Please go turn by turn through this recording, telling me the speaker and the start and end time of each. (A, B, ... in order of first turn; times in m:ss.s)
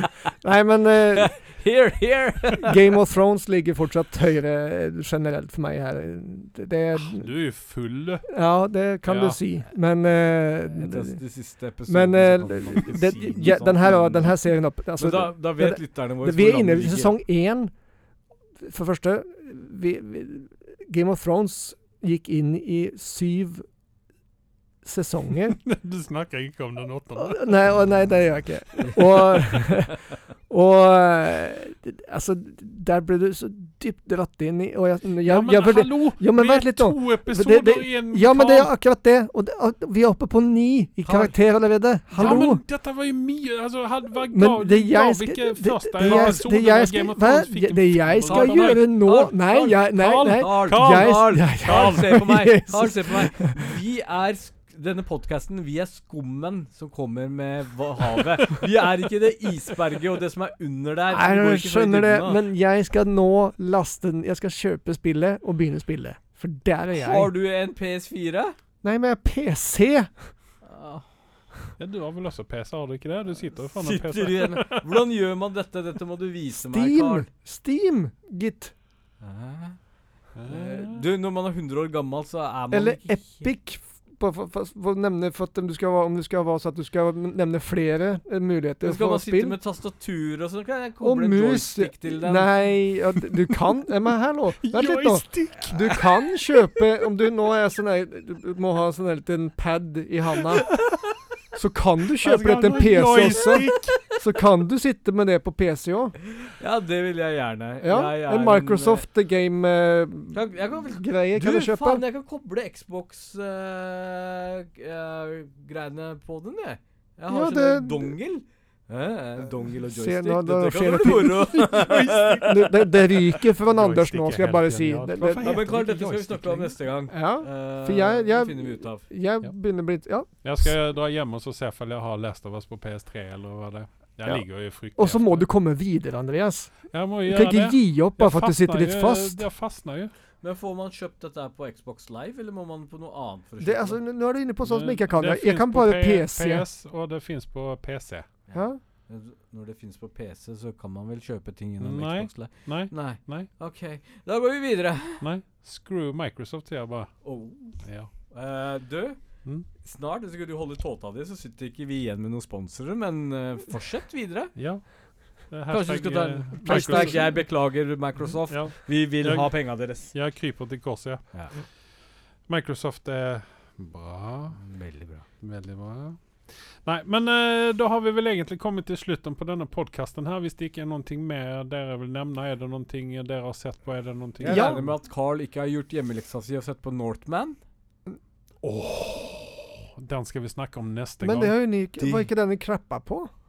0:00.4-0:01.4 A
0:01.2-0:02.8 B
0:02.6-0:07.3 A
0:07.0-0:08.3 C
0:08.3-0:11.2 A
0:09.0-0:09.4 C
0:10.7-0:17.2 B
0:11.9-0:17.7 A
0:18.6-0:23.7 A
0:24.8-0:25.6 A
0:25.6-0:28.1 C
0:27.2-0:42.6 A
0:28.8-0:29.4 C
0:35.2-0:38.7 C
0:41.0-0:41.3 C
0:42.1-0:49.2 C
0:44.3-0:53.7 A
0:46.0-0:46.4 B
0:48.3-1:02.4 B
0:50.0-0:52.5 C
1:01.1-1:07.3 A
1:06.9-1:08.6 B
1:08.8-1:10.3 A
1:10.6-1:11.1 B
1:11.8-1:14.9 C
1:13.8-1:17.3 B
1:16.5-1:18.7 A
1:19.2-1:19.9 B
1:20.4-1:21.0 C
1:20.4-1:23.5 B
1:22.7-1:29.6 A
1:28.8-1:32.7 B
1:31.0-1:40.8 A
1:34.6-1:36.1 C
1:41.5-1:46.2 A
1:42.2-1:44.1 C
1:46.4-1:49.1 B
1:47.8-1:52.0 A
1:50.3-2:02.8 B
1:57.3-1:58.2 A
1:59.8-2:05.6 A
2:01.4-2:02.5 C
2:03.7-2:06.8 C
2:05.4-2:09.1 B
2:07.1-2:10.8 A
2:09.4-2:15.5 C
2:14.2-2:19.5 A
2:16.9-2:20.1 C
2:20.4-2:24.0 B
2:23.6-2:26.7 A
2:24.6-2:28.3 C
2:28.5-2:35.2 B
2:28.5-2:28.8 A
2:31.8-2:33.5 C
2:35.2-2:38.1 C
2:37.2-2:44.6 B
2:44.6-2:47.9 C
2:45.7-2:50.2 B
2:46.6-2:47.5 A
2:48.5-2:54.6 C
2:54.5-2:55.3 B
2:55.4-3:04.9 C
3:04.4-3:07.6 B
3:04.5-3:04.8 A
3:08.6-3:11.5 C
3:11.2-3:13.3 A
3:12.0-3:12.3 B